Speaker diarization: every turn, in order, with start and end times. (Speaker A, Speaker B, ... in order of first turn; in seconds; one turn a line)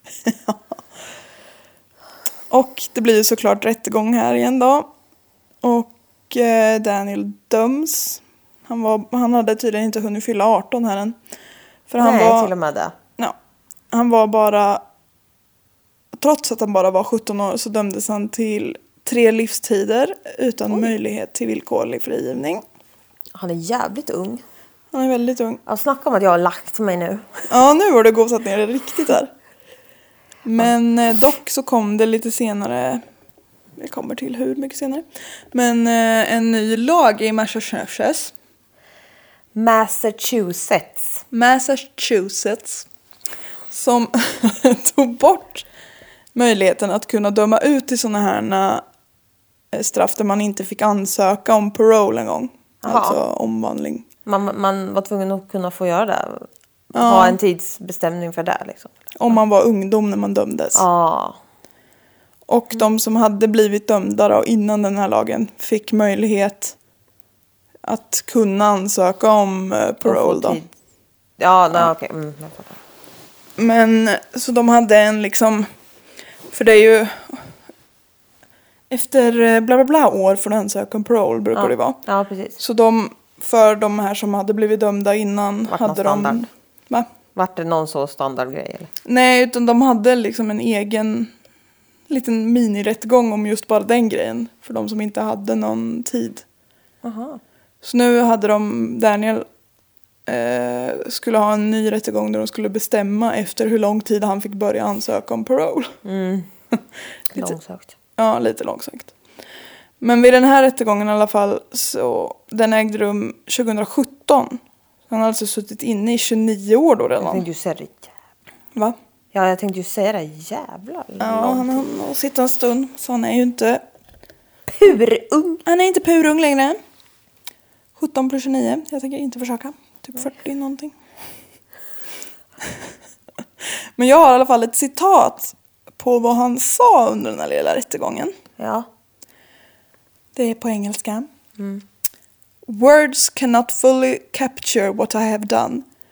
Speaker A: 0.2-0.6
Speaker A: 2.5-4.9
Speaker A: 5.6-11.2
Speaker A: 11.9-12.5
Speaker B: 12.0-12.9
Speaker A: 13.9-14.8
Speaker A: 16.1-22.6
Speaker B: 23.3-24.4
Speaker A: 24.9-25.6
Speaker B: 25.6-27.3
Speaker A: 27.5-29.3
Speaker A: 30.4-33.0
Speaker A: 33.8-38.3
Speaker B: 39.5-41.2
Speaker A: 41.3-42.9
Speaker A: 43.7-45.7
Speaker A: 46.3-48.8
Speaker A: 49.7-54.0
Speaker B: 52.8-53.2
Speaker B: 54.2-59.1
Speaker A: 56.9-57.4
Speaker A: 59.1-60.8
Speaker B: 60.7-61.4
Speaker A: 62.5-66.8
Speaker A: 67.8-70.6
Speaker B: 70.0-70.7
Speaker B: 71.4-72.8
Speaker A: 73.6-75.7
Speaker A: 76.5-77.5
Speaker A: 78.9-82.0
Speaker B: 81.5-82.6
Speaker A: 82.6-87.1
Speaker B: 85.7-86.4
Speaker B: 87.3-88.9
Speaker A: 89.0-91.3
Speaker A: 92.1-96.4
Speaker B: 97.0-97.4
Speaker A: 97.8-99.5
Speaker A: 100.2-106.0
Speaker B: 106.0-106.5
Speaker B: 107.3-107.9
Speaker A: 108.2-109.1
Speaker A: 110.0-117.4
Speaker B: 117.2-118.1
Speaker B: 119.3-122.0
Speaker A: 121.2-123.8
Speaker B: 124.7-125.6
Speaker A: 125.7-126.8
Speaker A: 128.0-130.9
Speaker A: 133.6-138.3
Speaker B: 138.6-138.9
Speaker A: 140.3-141.3
Speaker B: 141.6-141.8
Speaker A: 142.7-145.8